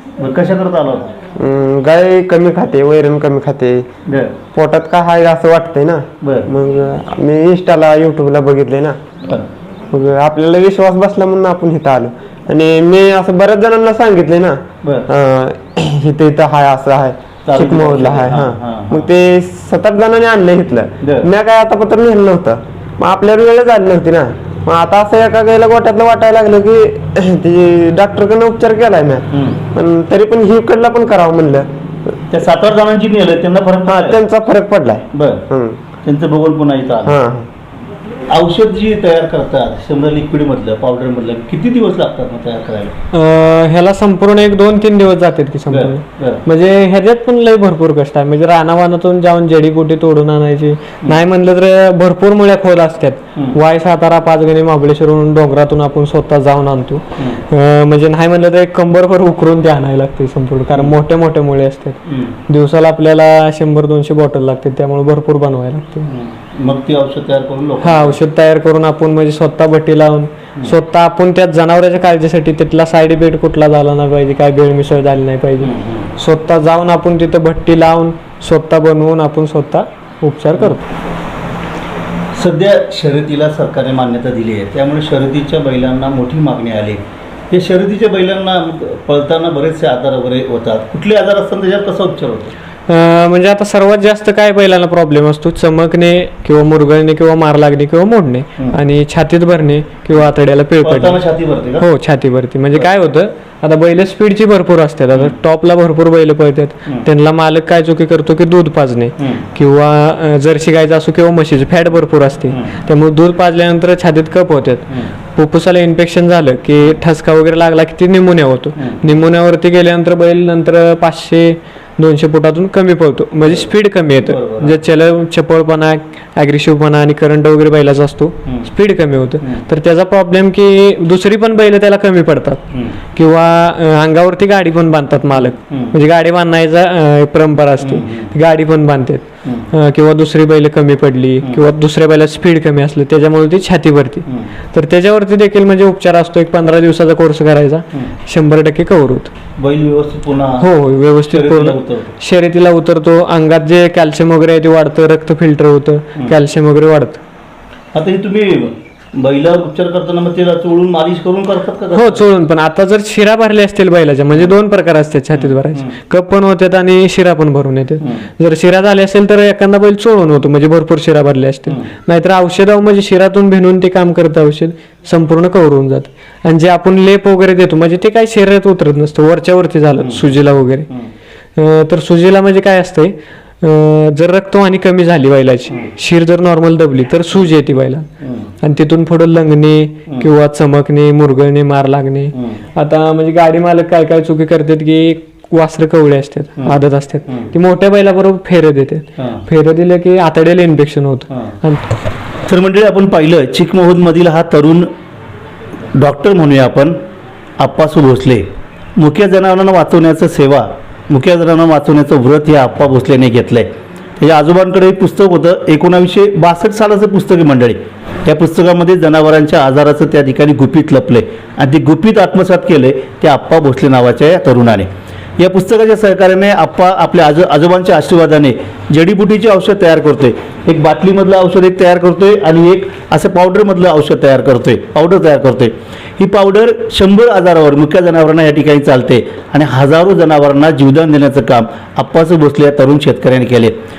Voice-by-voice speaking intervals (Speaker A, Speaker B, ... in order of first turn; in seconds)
Speaker A: 0.2-1.1, 4.1-4.4, 6.2-6.5, 17.5-19.1, 21.0-21.3, 29.3-29.6, 32.3-34.2, 35.1-35.5, 36.0-37.2, 38.3-42.9, 45.7-46.4, 62.0-62.4, 66.1-68.2, 75.6-76.1, 82.3-92.5, 100.8-101.9, 123.4-123.7, 124.3-124.8, 135.3-135.9, 137.8-138.3, 139.4-139.7, 144.3-144.5, 149.6-150.7, 151.2-152.1, 157.9-162.2, 165.3-165.9, 180.0-180.3, 188.2-188.5, 192.3-192.6, 202.5-204.9, 205.9-206.9, 207.6-208.4, 209.0-213.7, 214.2-224.9, 225.4-243.7
Speaker B: 1.4-3.9, 4.5-9.0, 9.9-31.7, 33.9-35.8, 37.0-37.5
Speaker C: 43.1-66.1, 67.8-80.8, 92.9-101.2, 101.8-149.3, 150.6-157.2, 161.9-180.9, 181.6-188.1, 188.6-201.8